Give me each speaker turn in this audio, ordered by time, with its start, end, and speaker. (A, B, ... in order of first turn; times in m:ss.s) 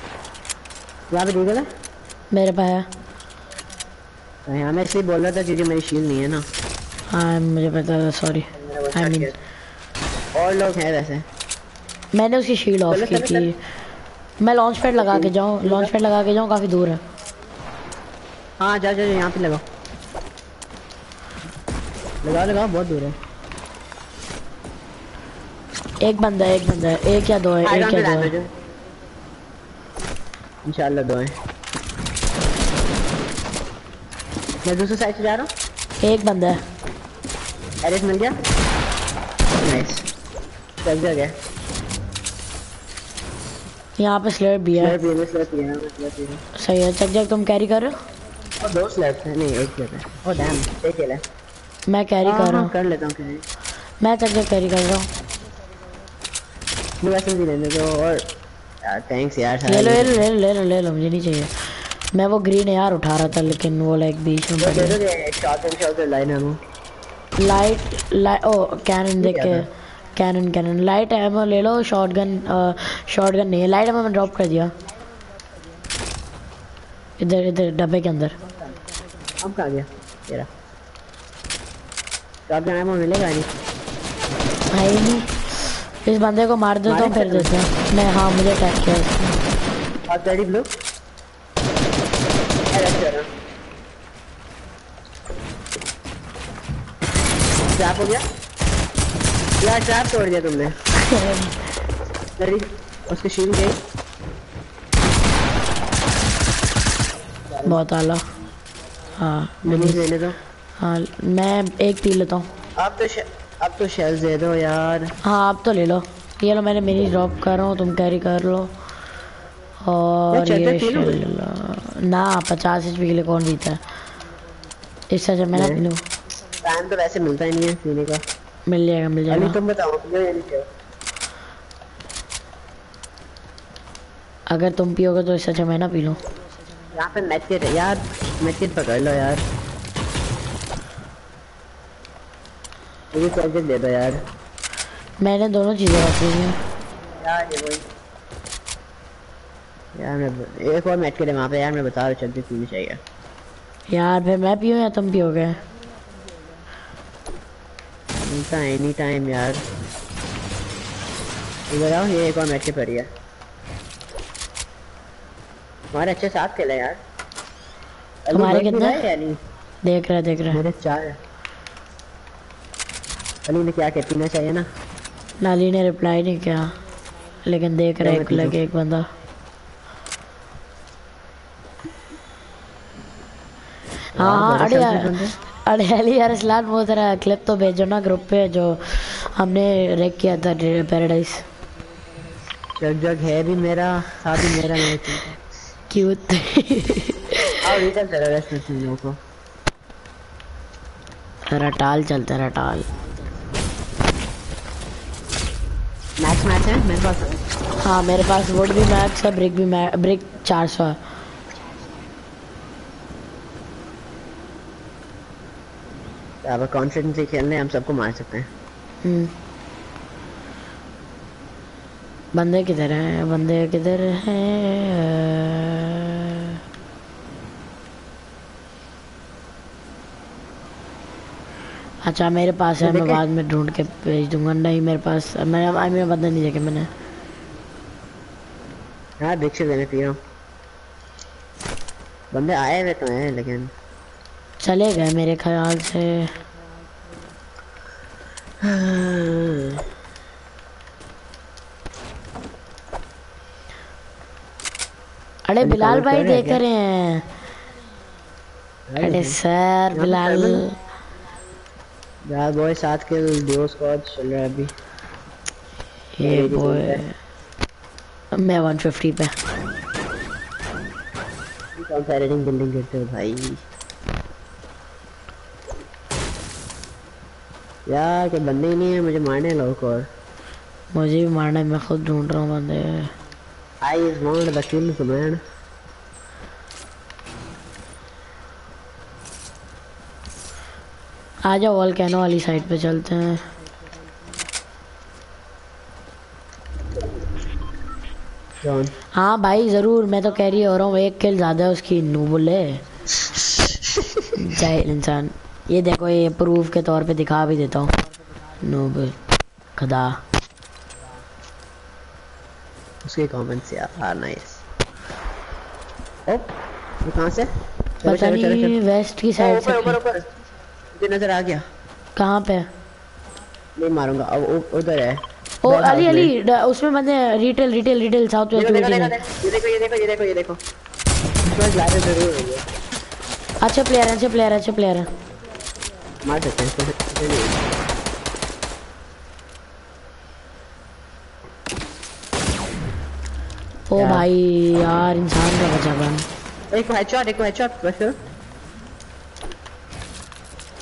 0:01.1-0:01.7 A
0:02.3-0:02.9 B
0:04.5-0:06.5 A
0:07.1-0:09.3 B
0:08.5-0:09.4 A
0:10.4-0:11.3 A
0:12.1-0:13.6 B
0:12.9-0:13.5 A
0:14.4-0:17.0 B
0:15.0-0:15.9 A
0:18.6-0:19.6 A
0:22.2-0:23.2 A
0:26.0-0:28.3 B
0:27.6-0:28.5 A
0:30.6-0:31.4 A
0:34.6-0:35.5 A
0:36.0-0:36.6 B
0:37.8-0:38.4 A
0:39.6-0:40.1 A
0:40.8-0:41.4 A
0:44.0-0:45.0 B
0:44.8-0:46.4 A
0:46.6-0:48.0 B
0:48.6-0:51.2 A
0:51.9-0:52.7 B
0:52.2-0:53.4 A
0:54.0-0:55.1 B
0:57.0-0:58.2 A
0:58.8-1:00.3 A
0:59.6-1:05.0 B
1:04.6-1:06.6 A
1:07.4-1:14.8 B
1:09.2-1:09.6 A
1:17.2-1:18.4 B
1:18.5-1:18.8 A
1:19.4-1:20.5 A
1:22.5-1:23.5 A
1:24.7-1:25.4 B
1:26.0-1:29.3 B
1:26.9-1:27.5 A
1:30.1-1:30.7 A
1:32.7-1:33.3 A
1:37.7-1:38.2 A
1:39.6-1:40.8 A
1:41.0-1:41.7 B
1:42.4-1:43.8 A
1:47.5-1:47.8 A
1:47.6-1:48.2 B
1:49.2-1:50.1 B
1:49.6-1:50.4 A
1:50.8-1:52.5 B
1:52.8-1:55.1 A
1:55.2-1:58.7 B
1:59.8-2:03.8 B
2:00.3-2:01.2 A
2:05.1-2:06.1 B
2:05.5-2:05.8 A
2:06.6-2:08.2 A
2:08.7-2:09.6 B
2:09.3-2:10.7 A
2:14.5-2:16.2 B
2:16.9-2:19.4 A
2:23.1-2:24.2 A
2:25.2-2:26.6 B
2:27.2-2:27.8 A
2:30.0-2:33.0 A
2:33.9-2:35.6 B
2:38.2-2:39.6 A
2:41.7-2:43.1 A
2:45.9-2:47.0 A
2:48.3-2:49.4 A
2:48.3-2:49.0 B
2:49.8-2:50.6 B
2:50.5-2:51.2 A
2:53.5-2:54.7 A
2:55.4-2:56.8 B
2:57.4-2:59.1 B
2:58.0-2:58.6 A
3:04.2-3:05.4 A
3:04.2-3:11.4 B
3:12.8-3:15.4 A
3:14.4-3:14.9 B
3:15.9-3:17.7 B
3:17.6-3:19.2 A
3:21.5-3:22.9 B
3:26.2-3:27.4 A
3:27.8-3:31.0 B
3:36.4-3:38.5 A
3:39.0-3:39.3 B
3:42.4-3:46.6 B
3:52.0-3:56.9 B
3:52.8-3:53.2 A
3:59.2-4:00.2 A
4:02.3-4:03.7 A
4:04.6-4:06.3 B
4:08.6-4:09.8 A
4:15.5-4:17.3 B
4:15.6-4:16.6 A
4:18.9-4:19.4 A
4:19.0-4:20.8 B
4:19.9-4:20.6 A
4:22.3-4:24.7 A
4:26.2-4:27.1 B
4:26.2-4:27.0 A
4:28.3-4:29.4 B
4:31.8-4:33.6 A
4:37.9-4:40.1 A
4:40.9-4:43.1 B
4:43.8-4:45.4 A
4:51.5-4:53.4 B
4:58.6-4:58.9 A
4:59.1-5:02.8 B
5:04.4-5:07.9 B
5:08.6-5:09.2 B
5:09.8-5:10.2 B
5:13.0-5:14.6 A
5:16.3-5:16.5 A
5:17.0-5:17.5 A
5:18.0-5:18.8 A
5:18.0-5:20.0 B
5:19.4-5:20.2 A
5:20.9-5:21.6 A
5:22.2-5:22.7 B
5:23.8-5:26.3 A
5:25.6-5:29.2 B
5:28.5-5:30.6 A
5:31.4-5:32.6 A
5:33.6-5:35.1 B
5:36.2-5:37.6 A
5:43.9-5:46.3 B
5:44.0-5:44.3 A
5:46.7-5:48.2 A